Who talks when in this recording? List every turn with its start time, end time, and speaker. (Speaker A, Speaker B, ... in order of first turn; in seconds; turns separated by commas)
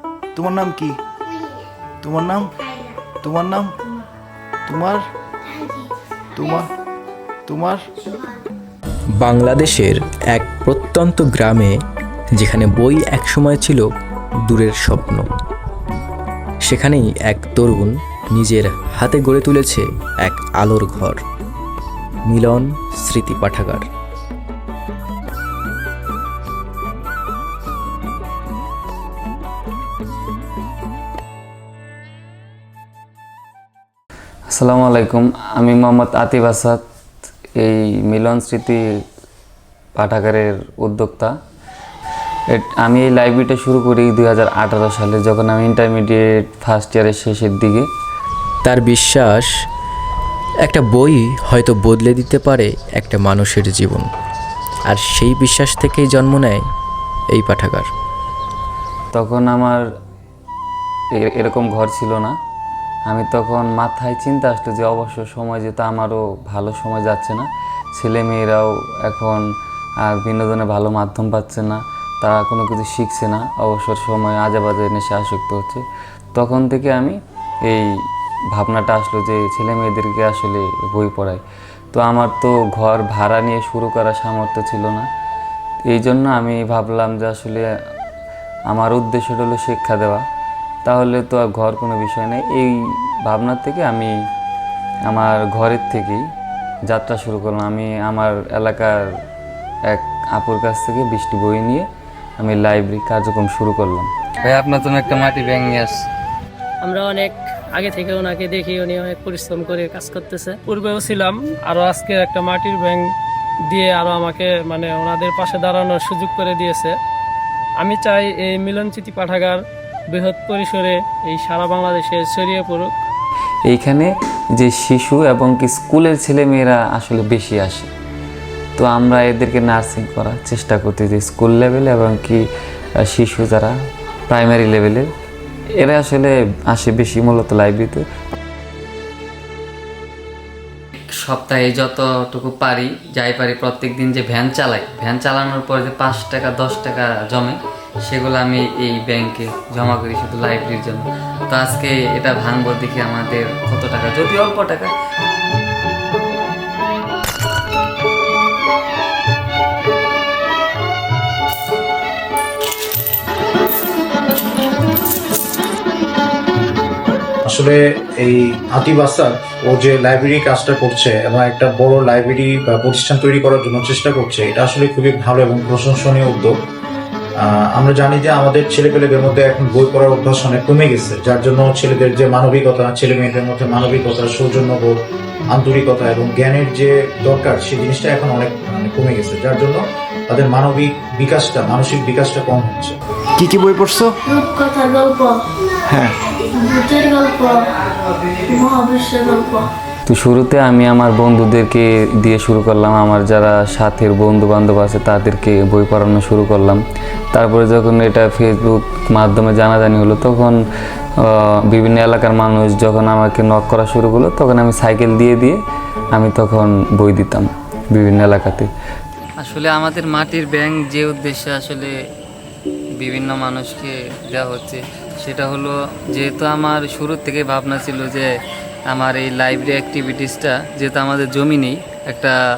Speaker A: 0.3-1.0, Speaker A: 2.0-2.5, Speaker A: 3.1-3.7, Speaker A: 4.7-5.0, Speaker A: 6.3-6.7, Speaker A: 7.5-7.8, Speaker B: 9.2-11.8, Speaker B: 12.3-13.9, Speaker B: 14.5-15.3, Speaker B: 16.6-21.2, Speaker B: 22.3-23.9, Speaker C: 34.5-36.8, Speaker C: 37.6-38.8, Speaker C: 40.0-41.3, Speaker C: 42.5-47.9, Speaker B: 48.6-49.5, Speaker B: 50.6-54.1, Speaker B: 54.9-56.6, Speaker B: 57.3-57.9, Speaker C: 59.1-59.9, Speaker C: 61.2-62.3, Speaker C: 63.0-69.5, Speaker C: 70.0-75.8, Speaker C: 76.3-77.9, Speaker C: 78.5-81.4, Speaker C: 81.9-85.0, Speaker C: 85.8-87.7, Speaker C: 88.7-90.2, Speaker C: 90.8-94.1, Speaker C: 95.1-96.2, Speaker C: 96.9-99.1, Speaker C: 99.9-101.8, Speaker C: 102.4-106.0, Speaker D: 106.8-113.0, Speaker D: 113.7-116.9, Speaker D: 117.8-119.6, Speaker D: 120.1-122.9, Speaker C: 123.7-127.9, Speaker C: 128.8-132.4, Speaker C: 133.0-133.7, Speaker C: 134.3-135.1, Speaker C: 135.8-138.0, Speaker C: 141.1-154.9, Speaker E: 167.4-176.6, Speaker E: 177.4-193.0, Speaker A: 193.4-194.1, Speaker F: 194.2-195.4, Speaker A: 195.9-196.1, Speaker F: 196.5-199.7, Speaker C: 200.1-206.8, Speaker C: 207.3-210.6, Speaker C: 211.2-215.6, Speaker C: 216.1-218.7, Speaker C: 219.4-221.9, Speaker C: 223.0-228.3, Speaker C: 228.9-232.3